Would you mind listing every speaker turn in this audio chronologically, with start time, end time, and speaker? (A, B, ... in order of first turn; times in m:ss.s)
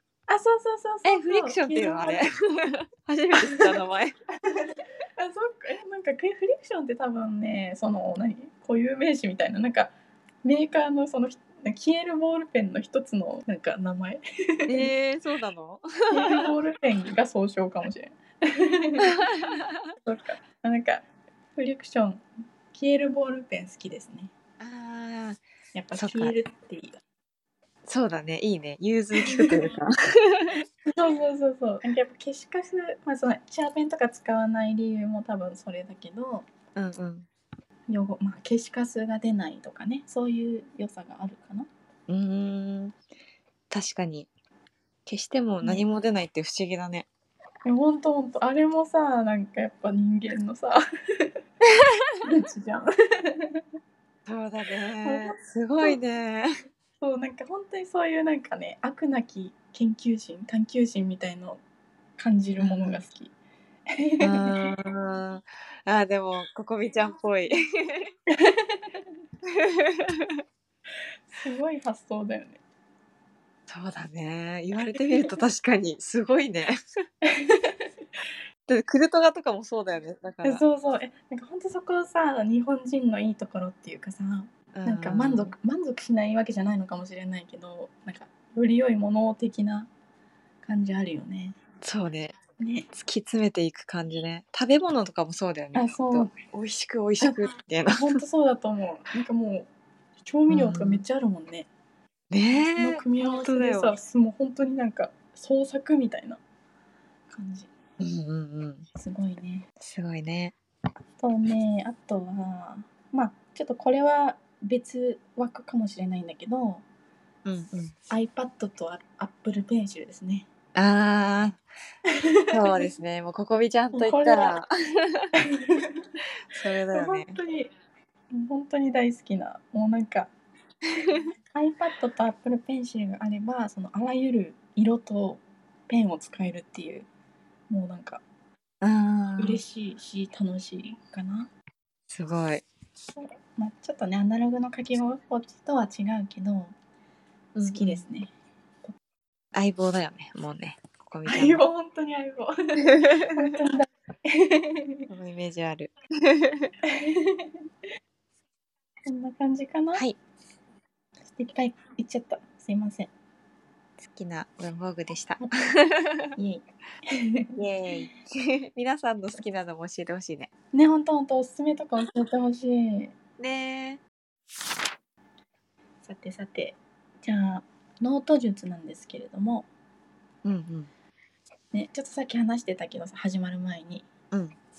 0:00.3-0:02.3 A
0:01.0-0:04.1 B
0:03.4-0:03.7 A
0:04.5-0:09.9 A
0:10.4-0:14.9 A
0:14.7-0:16.5 B
0:16.1-0:19.2 A
0:19.0-0:19.9 B
0:20.0-0:24.3 A
0:24.6-0:25.4 B
0:25.7-0:27.0 A
0:25.9-0:26.3 B
0:27.8-0:30.6 B
0:29.2-0:29.6 A
0:30.8-0:36.5 A
0:36.7-0:37.3 B
0:37.9-0:41.7 A
0:42.1-0:43.0 B
0:43.7-0:44.3 B
0:45.0-0:47.1 B
0:47.6-0:51.4 A
0:51.8-0:52.2 B
0:52.2-0:53.6 A
0:54.2-0:56.5 B
0:55.0-0:56.0 A
0:57.0-1:01.6 A
1:02.2-1:03.3 A
1:02.6-1:03.0 B
1:03.9-1:04.7 A
1:04.2-1:08.1 B
1:08.3-1:09.0 A
1:09.4-1:10.4 B
1:11.3-1:12.6 A
1:13.7-1:16.8 B
1:17.2-1:17.9 A
1:18.7-1:20.6 B
1:20.4-1:29.9 A
1:24.7-1:25.5 B
1:30.6-1:31.6 A
1:31.8-1:32.4 B
1:32.6-1:32.9 A
1:32.9-1:38.2 B
1:35.7-1:36.3 A
1:37.9-1:39.7 A
1:40.2-1:41.7 A
1:40.5-1:41.0 B
1:42.3-1:43.9 B
1:42.5-1:46.4 A
1:47.3-1:47.7 A
1:48.0-1:48.8 B
1:48.9-1:49.7 A
1:49.8-1:50.5 B
1:51.2-1:56.8 A
1:57.4-1:57.9 B
1:58.1-2:00.5 A
2:00.7-2:01.6 B
2:02.1-2:02.9 A
2:02.5-2:05.3 B
2:03.9-2:04.5 A
2:05.4-2:06.0 A
2:06.5-2:07.4 B
2:06.9-2:07.7 A
2:08.3-2:10.3 A
2:11.5-2:17.1 A
2:17.7-2:18.2 A
2:18.8-2:19.6 B
2:19.4-2:21.5 A
2:22.1-2:22.6 B
2:23.1-2:26.7 A
2:27.5-2:28.0 B
2:27.6-2:28.3 A
2:29.5-2:31.6 B
2:31.2-2:35.1 A
2:32.9-2:33.5 B
2:35.1-2:36.7 B
2:36.8-2:37.5 A
2:39.0-2:40.0 A
2:41.3-2:43.1 A
2:44.0-2:46.3 B
2:46.4-2:47.6 A
2:47.6-2:50.5 B
2:50.7-2:53.1 A
2:53.4-2:54.0 B
2:56.0-2:59.7 A
3:00.4-3:00.9 B
3:01.7-3:04.1 A
3:04.3-3:04.6 B